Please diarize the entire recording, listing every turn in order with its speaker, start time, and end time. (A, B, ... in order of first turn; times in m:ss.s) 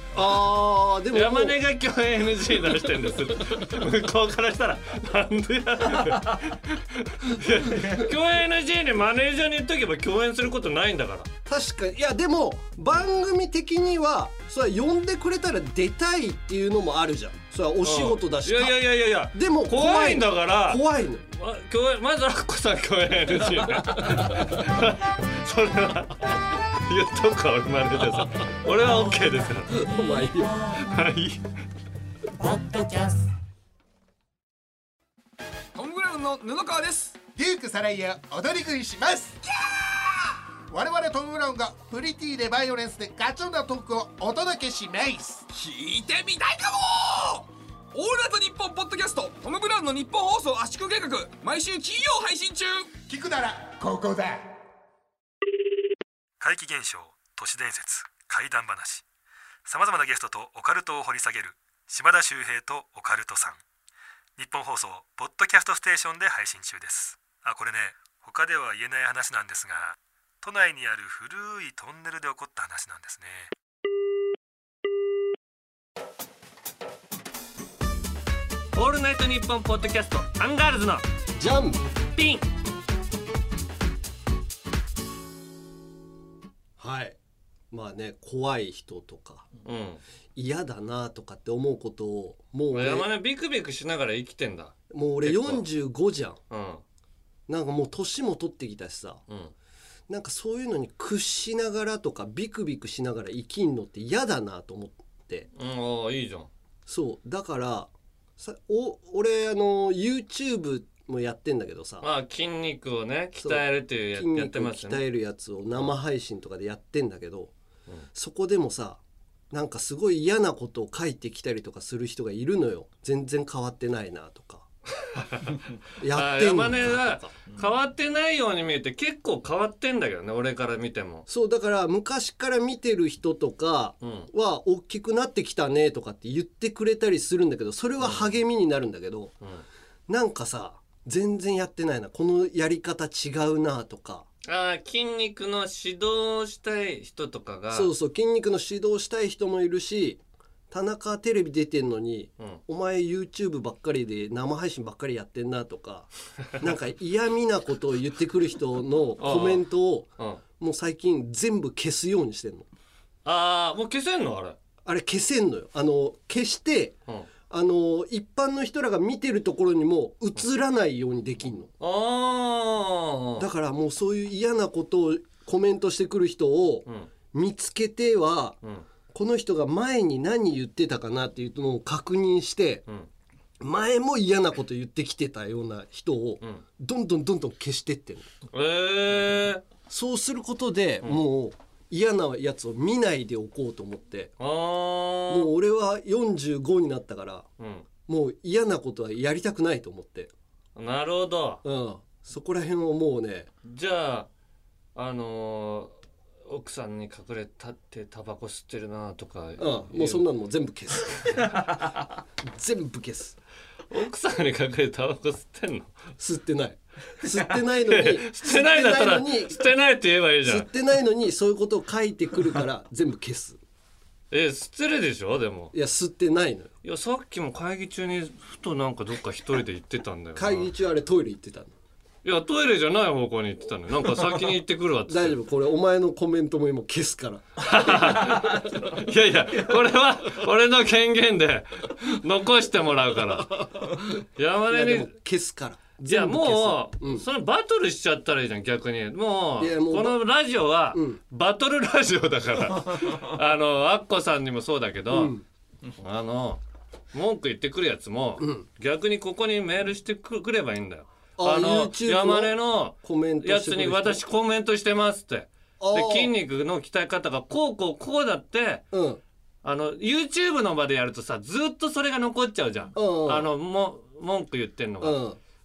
0:00.1-0:01.6 A
0:01.1-0:11.3 B
0:11.4-0:21.3 A
0:17.8-0:20.8 B
0:21.4-0:29.8 B
0:29.7-0:30.6 A
0:30.8-0:31.4 B
0:35.7-0:37.2 C
0:37.4-0:39.4 D
0:40.7-0:45.4 D
0:45.5-0:52.9 C
0:53.1-0:54.5 D
0:56.4-0:59.0 E
0:59.6-1:03.6 E
1:04.4-1:13.5 E
1:18.7-1:21.0 B
1:21.4-1:21.8 A
1:22.1-1:22.4 B
1:26.8-1:27.2 A
1:27.7-1:29.5 A
1:29.6-1:30.0 B
1:30.4-1:33.1 A
1:32.7-1:35.6 B
1:34.9-1:36.4 A
1:36.5-1:36.8 B
1:37.5-1:39.2 A
1:39.3-1:39.5 B
1:40.1-1:45.5 A
1:45.5-1:46.5 B
1:46.9-1:52.0 A
1:52.0-1:55.0 B
1:53.4-1:57.5 A
1:58.1-2:04.7 A
2:05.1-2:11.3 B
2:06.0-2:07.3 A
2:11.3-2:19.3 A
2:14.0-2:14.3 B
2:18.0-2:18.4 B
2:20.1-2:24.2 A
2:24.4-2:27.9 B
2:27.7-2:42.7 A
2:39.2-2:39.6 B
2:43.2-2:44.6 B
2:44.8-2:47.0 A
2:47.5-2:51.7 A
2:51.8-2:53.5 B
2:53.4-2:58.6 A
2:59.1-3:02.8 A
3:03.6-3:08.3 A
3:08.5-3:09.6 B
3:09.9-3:14.3 A
3:14.4-3:15.5 B
3:15.3-3:17.5 A
3:17.6-3:17.8 B
3:18.0-3:20.3 A
3:20.8-3:21.6 B
3:21.6-3:23.5 A
3:23.6-3:24.3 B
3:24.9-3:30.2 B
3:29.6-3:31.6 A
3:32.4-3:33.4 A
3:33.9-3:35.9 B
3:36.2-3:39.6 A
3:37.8-3:40.7 B
3:40.4-3:43.6 A
3:44.3-3:45.7 B
3:45.7-3:46.7 A
3:46.8-3:50.7 B
3:50.4-3:51.7 A
3:52.2-3:55.4 B
3:55.1-3:58.7 A
3:57.6-4:05.1 B
4:03.4-4:07.2 A
4:06.0-4:15.3 B
4:09.6-4:10.2 A
4:10.9-4:11.2 A
4:15.1-4:15.4 A
4:16.0-4:16.6 B
4:17.1-4:28.8 B
4:18.4-4:18.6 A
4:21.4-4:24.2 A
4:25.8-4:26.3 A
4:28.9-4:29.2 A
4:29.6-4:35.2 B
4:32.9-4:33.5 A
4:35.0-4:35.4 A